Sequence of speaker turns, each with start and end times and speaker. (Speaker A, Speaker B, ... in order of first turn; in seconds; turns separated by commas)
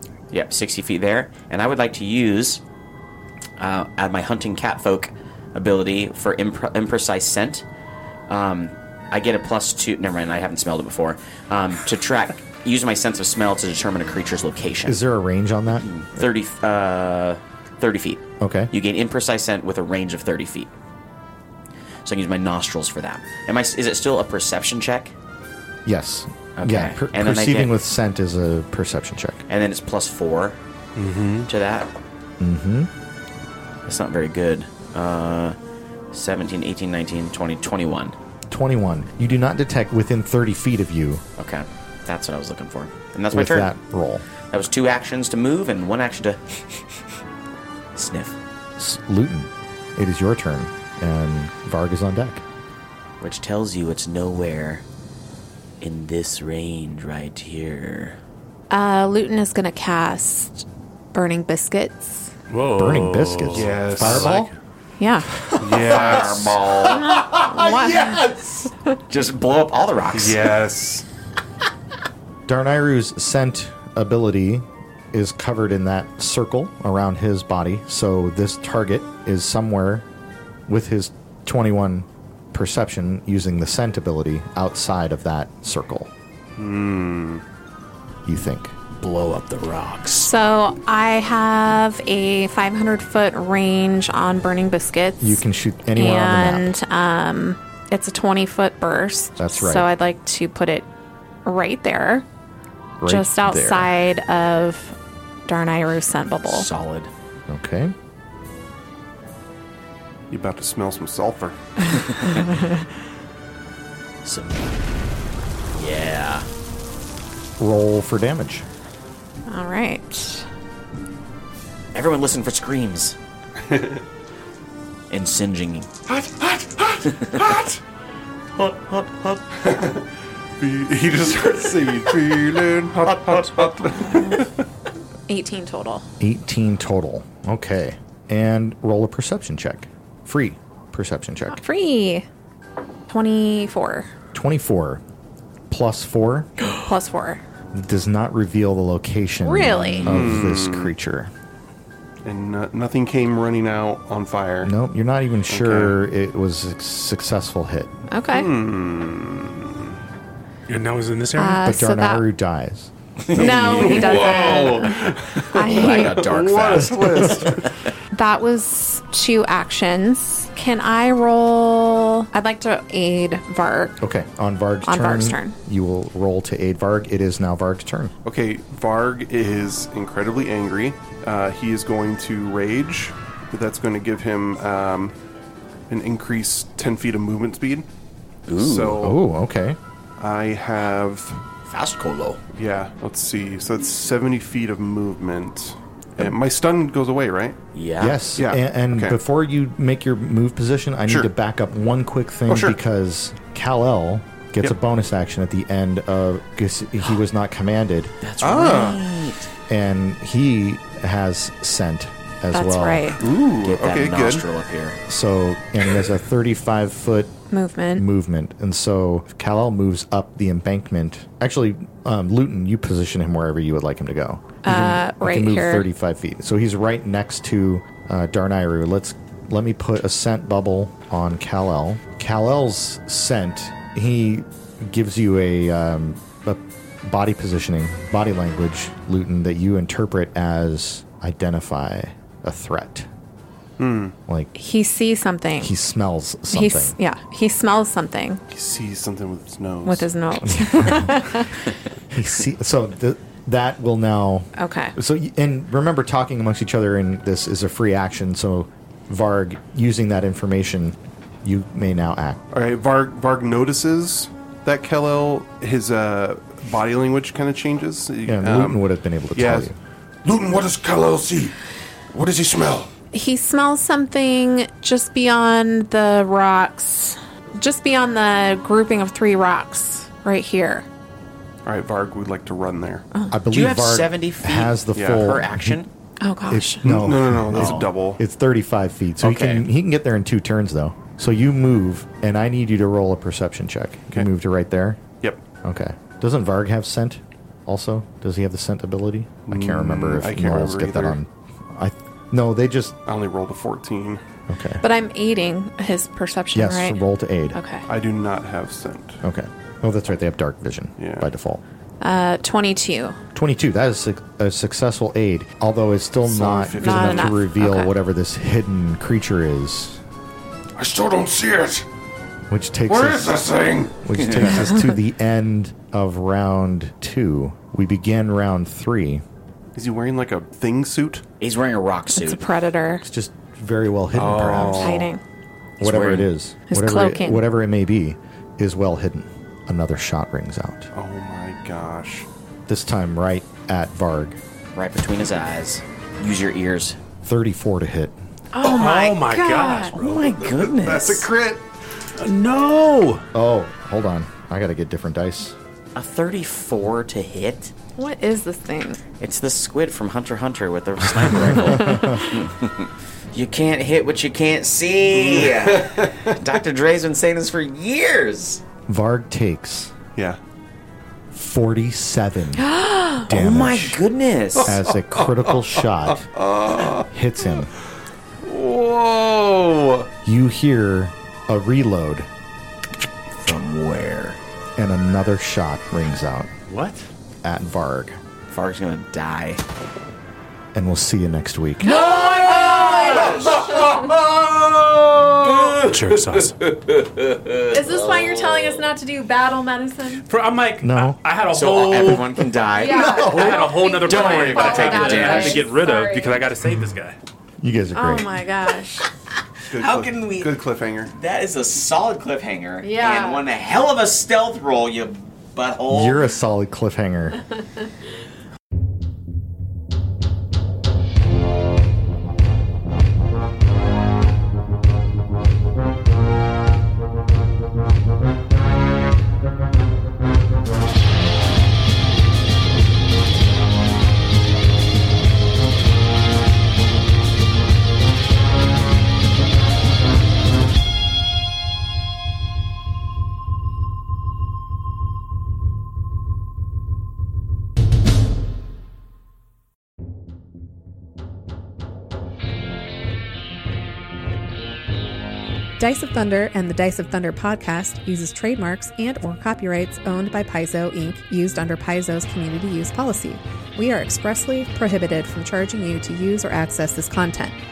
Speaker A: 0.3-2.6, Speaker A: 3.6-7.6, Speaker A: 8.3-15.0, Speaker B: 14.8-16.2, Speaker A: 15.7-20.7, Speaker B: 18.4-18.7, Speaker A: 22.0-25.1, Speaker B: 25.8-29.4, Speaker A: 26.6-27.7, Speaker A: 29.5-30.6, Speaker C: 30.9-31.5, Speaker A: 31.4-31.9, Speaker B: 32.4-32.9, Speaker A: 33.9-35.5, Speaker A: 36.1-38.1, Speaker B: 38.5-41.2, Speaker A: 41.4-43.7, Speaker B: 43.3-44.2, Speaker A: 44.5-46.4, Speaker A: 47.9-48.4, Speaker B: 48.8-52.4, Speaker A: 53.2-54.8, Speaker A: 55.8-58.2, Speaker D: 58.7-62.3, Speaker C: 62.5-64.5, Speaker B: 62.7-64.5, Speaker E: 63.5-64.3, Speaker D: 65.0-65.3, Speaker C: 65.5-66.6, Speaker E: 65.7-66.4, Speaker A: 65.8-67.0, Speaker D: 66.8-68.8, Speaker A: 69.1-70.4, Speaker C: 70.1-71.0, Speaker B: 72.5-80.0, Speaker B: 80.7-86.1, Speaker E: 86.5-87.4, Speaker B: 88.2-88.8, Speaker A: 89.0-90.3, Speaker D: 90.2-100.9, Speaker B: 95.2-96.7, Speaker B: 99.4-99.9, Speaker D: 101.4-102.2, Speaker B: 103.0-103.9, Speaker D: 103.0-104.9, Speaker D: 105.5-106.7, Speaker A: 106.5-107.1, Speaker B: 107.5-107.9, Speaker E: 110.3-111.6, Speaker A: 114.2-114.8, Speaker A: 115.7-116.5, Speaker B: 117.6-118.7, Speaker D: 119.5-120.5, Speaker A: 121.9-123.2, Speaker E: 123.6-124.0, Speaker A: 125.1-125.9, Speaker E: 126.1-127.8, Speaker A: 128.6-129.4, Speaker E: 129.6-130.0, Speaker E: 130.6-134.5, Speaker A: 133.0-134.0, Speaker D: 135.3-136.1, Speaker B: 136.2-141.6, Speaker D: 141.5-142.2, Speaker D: 143.1-144.1, Speaker B: 144.3-145.0, Speaker B: 145.7-146.5, Speaker D: 146.8-147.4, Speaker B: 147.7-151.3, Speaker D: 149.4-150.1, Speaker E: 150.1-150.9, Speaker E: 152.2-154.7, Speaker B: 154.6-157.9, Speaker E: 155.5-156.0, Speaker D: 158.1-158.5, Speaker E: 158.3-159.9, Speaker C: 160.7-161.7, Speaker D: 161.4-162.3, Speaker B: 161.6-162.9, Speaker A: 163.3-164.7, Speaker D: 163.3-166.3, Speaker E: 163.3-167.7, Speaker A: 165.6-167.5, Speaker B: 166.8-167.5, Speaker D: 168.1-174.0, Speaker B: 174.0-178.1, Speaker D: 174.8-175.6, Speaker E: 178.2-185.1, Speaker E: 185.9-187.9, Speaker A: 188.5-189.0, Speaker E: 188.6-189.2, Speaker B: 189.0-189.8, Speaker E: 190.2-191.4, Speaker A: 191.7-192.4, Speaker E: 192.5-197.6, Speaker A: 197.7-198.2, Speaker B: 198.0-208.1, Speaker E: 198.3-199.2, Speaker E: 202.5-202.8, Speaker A: 208.2-209.5, Speaker E: 208.4-209.0, Speaker B: 209.7-213.1, Speaker D: 212.5-213.2, Speaker E: 213.2-214.4, Speaker A: 213.6-215.0, Speaker B: 215.1-217.4, Speaker D: 217.5-218.1, Speaker B: 218.0-243.1, Speaker D: 224.6-225.9, Speaker E: 243.8-244.1, Speaker B: 244.3-244.5, Speaker D: 244.5-245.7, Speaker B: 245.6-246.9, Speaker D: 246.5-248.4, Speaker E: 248.5-250.1, Speaker D: 249.8-251.7, Speaker B: 250.4-251.4, Speaker B: 252.1-262.4, Speaker D: 254.6-254.9, Speaker E: 262.5-269.7, Speaker B: 268.2-269.8, Speaker F: 270.2-271.5, Speaker F: 272.1-272.9, Speaker D: 273.1-280.9, Speaker E: 281.6-283.1, Speaker B: 283.3-285.8, Speaker A: 283.5-285.9, Speaker E: 284.9-285.4, Speaker D: 286.2-286.9, Speaker B: 286.5-295.0, Speaker E: 286.8-288.2, Speaker A: 287.5-287.9, Speaker A: 289.2-289.7, Speaker B: 295.6-303.0, Speaker E: 299.5-301.2, Speaker E: 303.0-304.2, Speaker B: 304.5-304.8, Speaker D: 304.8-307.8, Speaker B: 306.5-307.6, Speaker E: 307.9-309.2, Speaker B: 309.2-311.6, Speaker E: 311.0-311.3, Speaker D: 312.0-313.2, Speaker B: 313.3-320.0, Speaker E: 316.2-317.4, Speaker D: 316.8-317.9, Speaker F: 320.8-321.8, Speaker B: 322.5-323.4, Speaker F: 322.9-324.0, Speaker B: 324.0-329.2, Speaker A: 324.2-324.4, Speaker E: 329.7-331.2, Speaker A: 331.4-332.4, Speaker D: 332.1-333.0, Speaker B: 333.0-335.1, Speaker E: 334.1-335.1, Speaker D: 334.6-335.2, Speaker A: 335.8-336.3, Speaker B: 335.8-340.9, Speaker D: 336.7-337.4, Speaker E: 340.9-342.3, Speaker B: 342.7-344.4, Speaker A: 344.7-347.0, Speaker B: 347.2-348.2, Speaker D: 348.5-350.0, Speaker C: 348.6-350.4, Speaker A: 349.9-351.3, Speaker E: 350.4-351.6, Speaker C: 352.2-353.2, Speaker B: 353.3-355.5, Speaker A: 355.9-357.7, Speaker D: 357.9-359.0, Speaker A: 359.2-368.6, Speaker B: 361.2-362.3, Speaker D: 361.6-362.1, Speaker E: 365.1-366.3, Speaker B: 368.9-369.9, Speaker B: 371.3-372.6, Speaker D: 372.6-373.3, Speaker A: 373.3-374.8, Speaker B: 373.3-373.9, Speaker E: 374.6-375.6, Speaker B: 374.6-376.2, Speaker E: 376.4-377.1, Speaker B: 377.1-377.7, Speaker E: 378.4-380.1, Speaker B: 380.2-382.3, Speaker A: 383.4-384.4, Speaker B: 384.8-386.5, Speaker C: 386.7-387.0, Speaker B: 387.4-388.2, Speaker A: 388.5-389.6, Speaker B: 390.7-392.0, Speaker D: 391.8-394.0, Speaker A: 391.9-398.8, Speaker C: 395.8-396.5, Speaker D: 397.7-400.2, Speaker C: 400.3-402.4, Speaker B: 400.8-401.2, Speaker A: 401.5-405.7, Speaker D: 402.7-406.4, Speaker B: 402.9-403.6, Speaker C: 403.2-407.1, Speaker B: 407.6-408.4, Speaker D: 407.9-409.1, Speaker E: 409.7-411.1, Speaker A: 409.7-416.2, Speaker D: 412.8-413.4, Speaker B: 415.9-417.4, Speaker G: 455.8-467.6